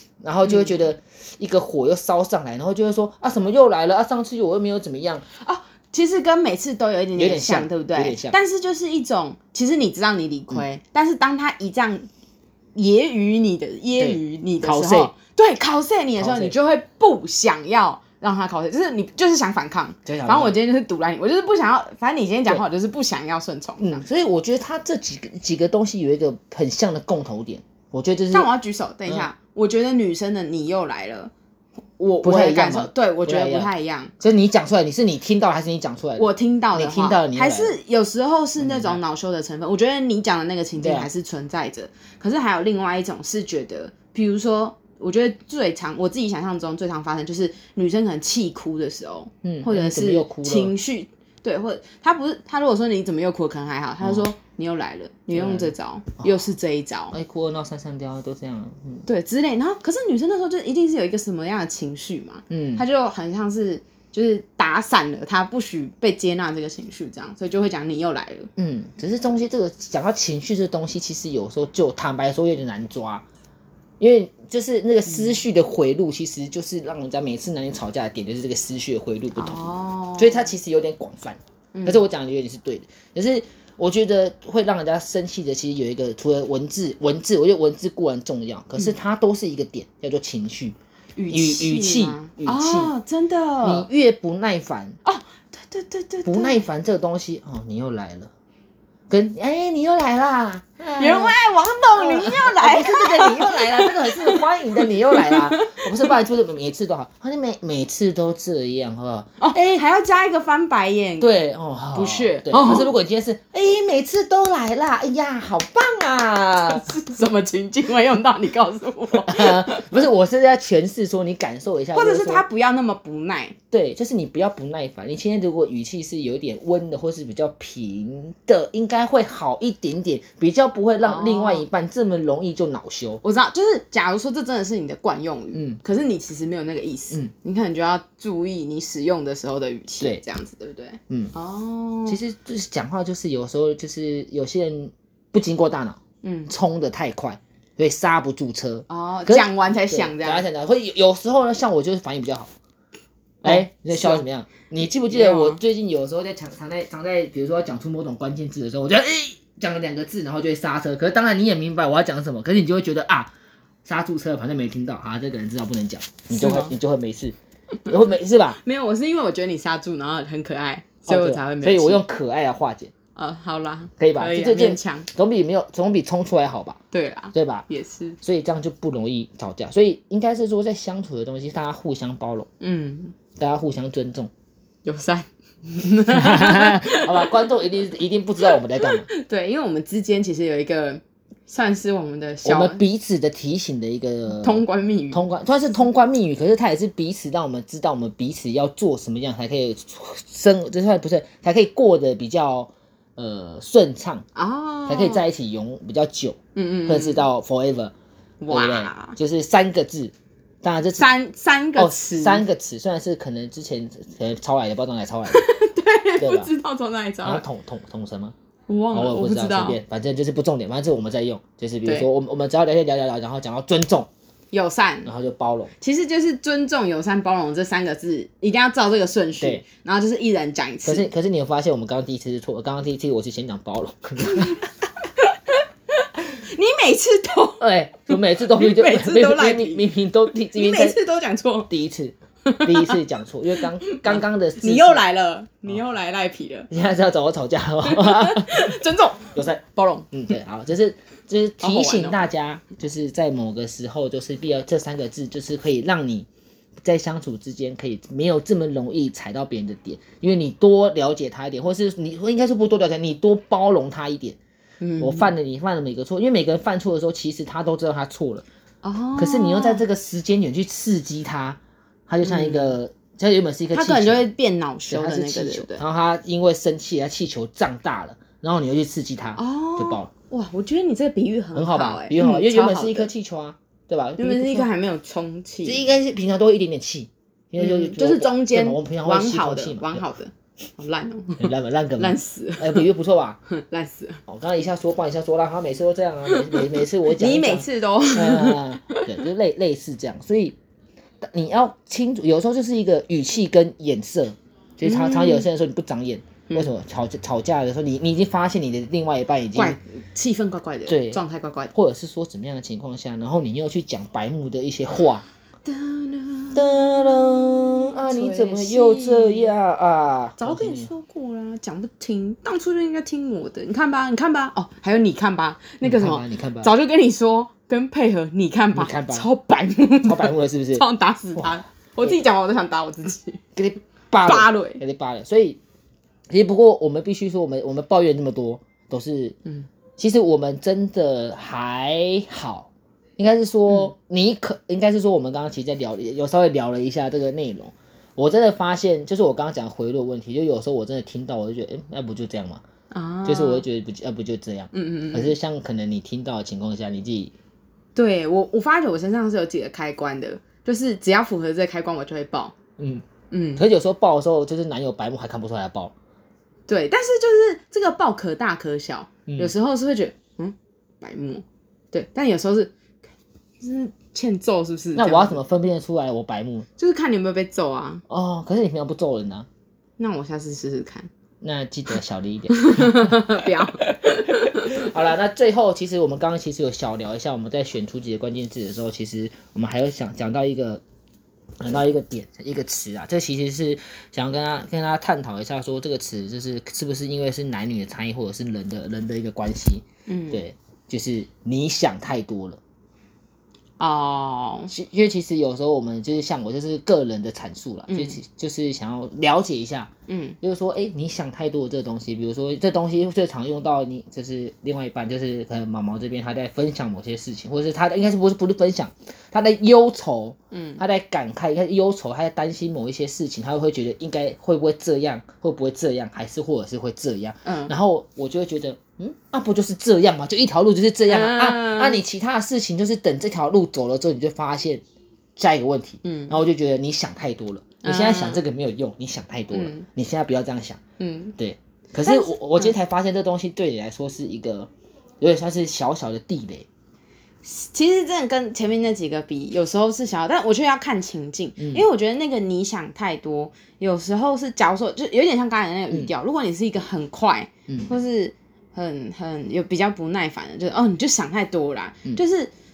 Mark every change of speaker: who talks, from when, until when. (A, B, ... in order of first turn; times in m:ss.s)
0:00.2-0:05.3 A
0:00.4-0:00.8 B
0:05.4-0:12.1 B
0:07.2-0:08.4 A
0:12.8-0:24.0 B
0:14.0-0:15.1 A
0:16.2-0:16.6 A
0:20.0-0:20.6 A
0:23.8-0:28.5 A
0:28.3-0:31.3 B
0:32.0-0:34.1 B
0:32.2-0:37.7 A
0:36.2-0:57.1 B
0:38.6-0:39.0 A
0:40.8-0:41.1 A
0:49.4-0:50.7 A
0:55.3-0:56.3 A
0:57.1-0:59.1 A
0:59.1-1:08.5 B
1:02.5-1:02.8 A
1:08.6-1:13.2 A
1:14.0-1:19.6 A
1:19.4-1:20.5 B
1:20.2-1:30.8 A
1:21.7-1:22.0 B
1:31.2-1:33.9 B
1:31.3-1:32.9 A
1:33.6-1:35.0 A
1:35.0-1:36.6 B
1:36.2-1:38.3 A
1:39.1-1:41.4 A
1:41.0-1:46.1 B
1:42.0-1:49.8 A
1:49.4-1:51.3 B
1:51.2-1:56.9 A
1:51.9-1:52.9 B
1:56.7-2:00.0 B
1:59.3-2:02.4 A
2:01.9-2:03.6 B
2:03.7-2:13.2 A
2:11.0-2:11.6 B
2:13.2-2:22.2 B
2:15.5-2:15.8 A
2:22.1-2:32.5 A
2:26.2-2:26.5 B
2:28.9-2:30.5 B
2:33.4-2:34.2 B
2:33.4-2:43.3 A
2:35.1-2:35.6 B
2:43.8-2:48.6 A
2:46.4-2:46.7 B
2:48.6-2:52.0 B
2:51.1-2:52.9 A
2:53.2-2:55.1 B
2:54.0-2:56.8 A
2:56.9-2:58.2 B
2:57.3-2:57.7 A
2:58.2-3:02.5 A
3:02.6-3:03.2 B
3:03.4-3:04.3 A
3:04.8-3:07.5 B
3:06.1-3:09.1 A
3:08.4-3:12.8 B
3:12.4-3:24.3 A
3:14.3-3:15.2 B
3:24.4-3:25.2 B
3:24.9-3:27.9 A
3:26.6-3:27.2 B
3:28.4-3:29.2 B
3:28.5-3:31.1 A
3:31.0-3:32.4 B
3:31.8-3:35.4 A
3:35.3-3:37.4 B
3:36.2-3:36.5 A
3:37.2-3:38.4 A
3:38.7-3:39.8 B
3:38.9-3:44.1 A
3:44.5-3:45.1 B
3:45.0-3:45.7 A
3:45.8-3:51.1 B
3:50.8-3:54.7 A
3:54.3-3:54.6 B
3:55.2-3:59.9 B
3:57.6-4:01.0 A
4:00.5-4:01.7 B
4:01.7-4:05.0 A
4:02.4-4:03.0 B
4:03.6-4:06.7 B
4:06.7-4:08.8 A
4:07.8-4:10.1 B
4:09.4-4:16.3 A
4:11.6-4:12.2 B
4:16.8-4:24.4 A
4:24.8-4:25.3 B
4:25.0-4:28.4 A
4:28.8-4:29.8 B
4:29.2-4:34.3 A
4:32.2-4:32.8 B
4:33.7-4:35.8 B
4:34.9-4:40.1 A
4:39.4-4:43.1 B
4:41.5-4:44.7 A
4:44.2-4:45.8 B
4:45.6-4:50.0 A
4:47.6-4:52.8 B
4:51.4-4:53.4 A
4:53.5-4:54.2 B
4:54.3-5:00.6 A
4:56.4-4:59.2 B
5:01.2-5:09.8 A
5:04.8-5:05.5 B
5:09.6-5:11.7 B
5:10.9-5:11.2 A
5:11.7-5:15.2 A
5:15.6-5:19.5 B
5:16.5-5:20.9 A
5:20.4-5:33.4 B
5:25.8-5:26.7 A
5:28.7-5:29.3 A
5:30.0-5:32.2 A
5:33.6-5:35.6 A
5:34.2-5:34.8 B
5:36.3-5:39.4 A
5:40.0-5:52.6 A
5:52.9-5:53.6 B
5:53.3-5:57.3 A
5:54.7-5:55.4 B
5:58.0-6:02.6 B
6:02.8-6:05.9 A
6:03.3-6:03.6 B
6:06.7-6:12.7 B
6:09.3-6:09.5 A
6:13.6-6:15.4 B
6:15.0-6:16.7 A
6:16.8-6:18.0 B
6:18.1-6:19.5 A
6:20.0-6:21.1 B
6:21.4-6:30.8 A
6:22.5-6:24.9 B
6:31.6-6:42.6 A
6:40.1-6:40.4 B
6:43.8-6:44.7 B
6:44.7-6:49.9 A
6:47.9-6:48.2 B
6:50.1-6:50.4 B
6:50.4-7:14.8 A
7:00.5-7:00.8 B
7:07.4-7:07.7 B
7:11.1-7:12.0 B
7:15.4-7:20.8 A
7:16.0-7:16.3 B
7:17.8-7:18.4 B
7:19.5-7:19.9 B
7:21.0-7:21.4 B
7:21.4-7:24.7 A
7:22.0-7:22.7 B
7:25.2-7:26.7 A
7:27.4-7:42.5 B
7:31.6-7:31.8 A